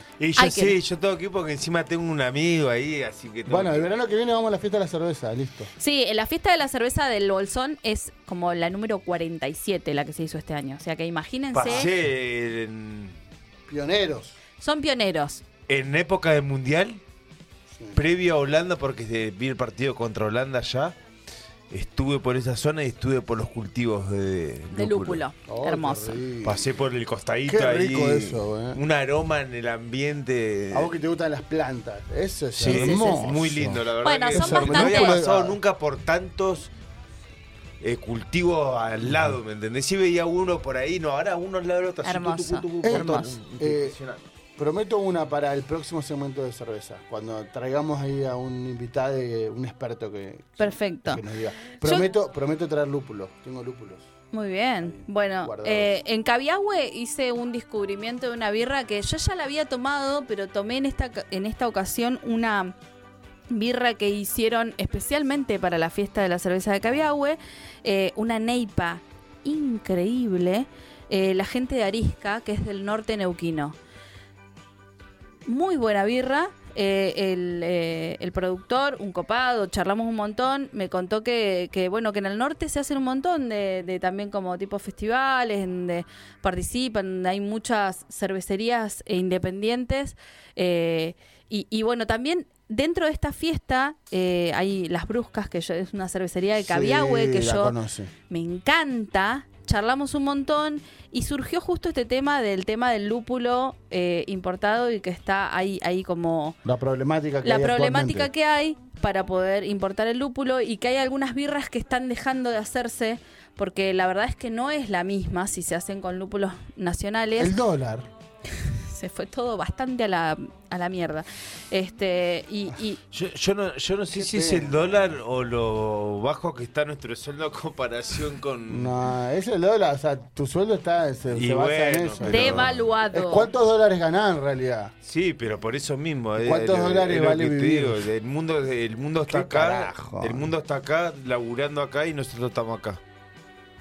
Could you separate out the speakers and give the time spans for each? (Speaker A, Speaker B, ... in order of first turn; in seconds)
Speaker A: 0.2-3.9, 11.5-13.2, 15.7-17.0, 17.9-20.9, 21.7-25.2, 26.4-30.9, 32.5-36.7, 37.8-44.2, 123.1-129.1, 131.3-132.8, 135.0-143.0
Speaker B: 0.3-0.8, 5.8-11.9, 14.6-15.4, 24.7-26.2, 32.7-33.2, 34.0-35.2, 42.0-43.3, 50.6-51.2, 51.8-52.1, 54.3-62.7, 63.5-73.8, 75.5-97.7, 98.3-106.6, 107.4-117.5, 118.5-123.0, 132.3-133.5
Speaker C: 3.5-5.7, 13.7-14.4, 17.7-18.0, 25.5-26.6, 27.5-28.8, 30.7-35.6, 42.8-44.0, 44.6-54.0, 54.8-55.9, 96.6-98.1, 106.6-108.3, 117.4-118.1, 124.1-125.1, 128.7-134.9, 136.4-138.1, 139.2-140.5